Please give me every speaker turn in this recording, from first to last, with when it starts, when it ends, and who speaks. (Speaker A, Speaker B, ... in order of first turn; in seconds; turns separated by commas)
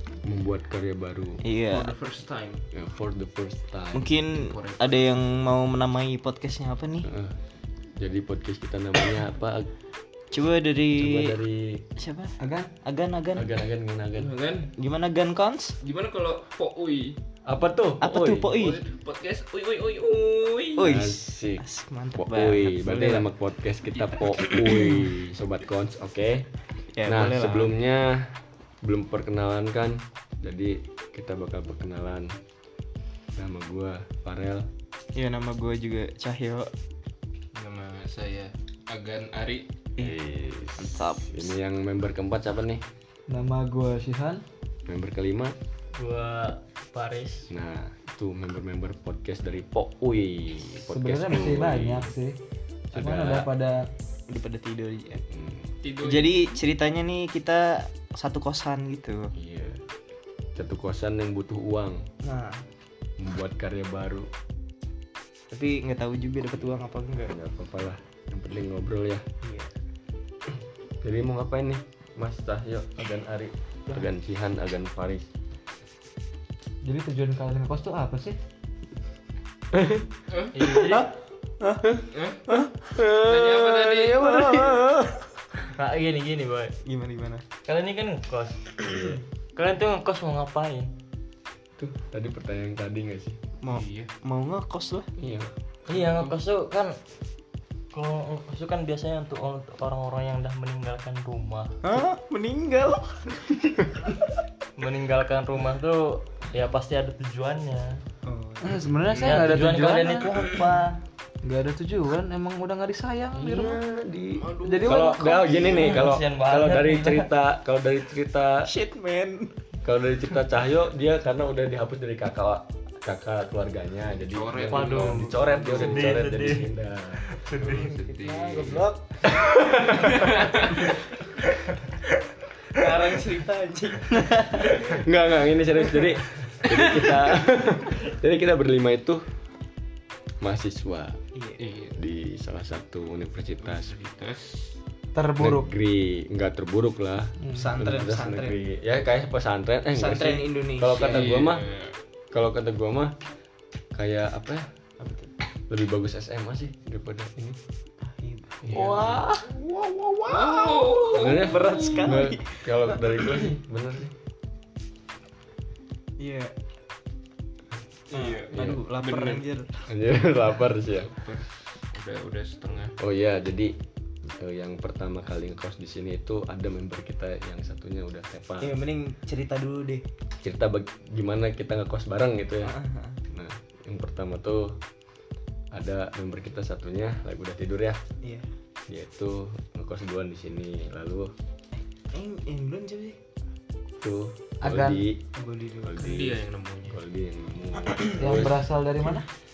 Speaker A: 0.2-1.4, Speaker B: 1.4-1.9, Speaker C: 1.6-2.7, Speaker A: 2.7-4.1, Speaker B: 3.9-7.1, Speaker C: 4.3-5.1, Speaker A: 7.0-7.4, Speaker A: 8.0-9.7, Speaker B: 10.3-11.4, Speaker A: 11.0-11.8, Speaker B: 12.0-13.5, Speaker D: 12.4-12.7, Speaker A: 13.3-14.3, Speaker C: 14.2-14.7, Speaker B: 14.8-15.8, Speaker C: 15.8-17.2, Speaker A: 17.5-18.5, Speaker B: 18.0-18.8, Speaker C: 18.5-20.9, Speaker B: 20.8-23.3, Speaker A: 20.8-26.5, Speaker C: 23.9-24.3, Speaker B: 24.6-25.1, Speaker B: 26.9-27.8, Speaker A: 27.1-32.3, Speaker A: 33.4-34.7, Speaker B: 35.1-36.7, Speaker C: 37.5-39.7, Speaker A: 40.0-42.8, Speaker B: 40.8-41.5, Speaker D: 43.3-44.4, Speaker A: 44.9-45.6, Speaker E: 45.9-47.5, Speaker A: 47.5-52.1, Speaker D: 50.9-52.4, Speaker A: 52.9-53.5, Speaker D: 53.0-53.9, Speaker B: 54.3-55.2, Speaker A: 55.3-55.7, Speaker C: 55.8-56.4, Speaker B: 56.0-59.3, Speaker A: 59.4-59.8, Speaker A: 60.6-62.0, Speaker B: 62.2-62.7, Speaker A: 63.2-64.3, Speaker B: 65.5-67.3, Speaker A: 67.2-69.2, Speaker B: 69.4-69.7, Speaker A: 71.0-75.3, Speaker D: 76.8-78.3, Speaker A: 79.7-80.0, Speaker C: 80.3-80.6, Speaker E: 80.5-81.1, Speaker B: 80.7-83.2, Speaker C: 82.1-82.5, Speaker A: 83.0-84.5, Speaker C: 83.2-84.3, Speaker B: 84.1-85.2, Speaker E: 85.7-86.7, Speaker B: 86.8-87.4, Speaker E: 87.7-89.0, Speaker E: 89.6-90.9, Speaker A: 91.8-93.4, Speaker B: 93.6-95.1, Speaker C: 93.7-94.1, Speaker A: 95.2-95.5, Speaker E: 95.9-97.0, Speaker C: 95.9-96.4, Speaker E: 97.9-101.7, Speaker B: 101.8-104.1, Speaker E: 104.8-108.0, Speaker B: 108.2-109.0, Speaker D: 108.6-110.8, Speaker E: 109.2-110.8, Speaker D: 111.5-113.8, Speaker A: 113.3-118.7, Speaker C: 114.4-115.0, Speaker D: 114.7-115.7, Speaker E: 115.7-117.3, Speaker B: 115.7-115.9, Speaker B: 118.7-119.5, Speaker A: 119.8-127.4, Speaker C: 124.1-125.8, Speaker E: 124.7-126.7, Speaker B: 127.5-129.7, Speaker C: 127.8-128.9, Speaker A: 129.4-130.4, Speaker C: 130.2-130.9, Speaker B: 132.7-134.9, Speaker A: 134.7-139.2, Speaker A: 140.4-141.2, Speaker B: 141.3-141.6, Speaker C: 141.6-142.0, Speaker A: 142.0-143.9, Speaker C: 143.5-144.8, Speaker D: 145.2-145.7, Speaker A: 145.4-151.7, Speaker B: 147.5-148.6, Speaker B: 149.9-151.3, Speaker C: 150.9-152.0, Speaker A: 152.3-153.1, Speaker A: 153.9-154.7, Speaker B: 155.0-155.3, Speaker A: 155.7-157.6, Speaker B: 158.0-163.5, Speaker A: 158.6-159.5, Speaker C: 158.7-159.1, Speaker C: 160.3-161.4, Speaker A: 161.1-164.1, Speaker B: 166.2-166.5, Speaker C: 168.1-169.4, Speaker B: 168.1-169.8, Speaker A: 168.5-168.8, Speaker A: 169.9-171.2, Speaker C: 170.9-173.0, Speaker A: 173.0-173.8, Speaker A: 174.4-178.8, Speaker B: 178.6-180.1, Speaker A: 180.4-182.8, Speaker B: 182.6-183.2, Speaker A: 183.3-184.7, Speaker A: 185.7-188.0, Speaker A: 188.9-191.3, Speaker B: 192.1-193.2, Speaker A: 194.0-195.2, Speaker D: 194.7-195.0, Speaker B: 195.3-196.1, Speaker A: 195.8-198.7, Speaker C: 196.0-197.0, Speaker D: 198.2-199.3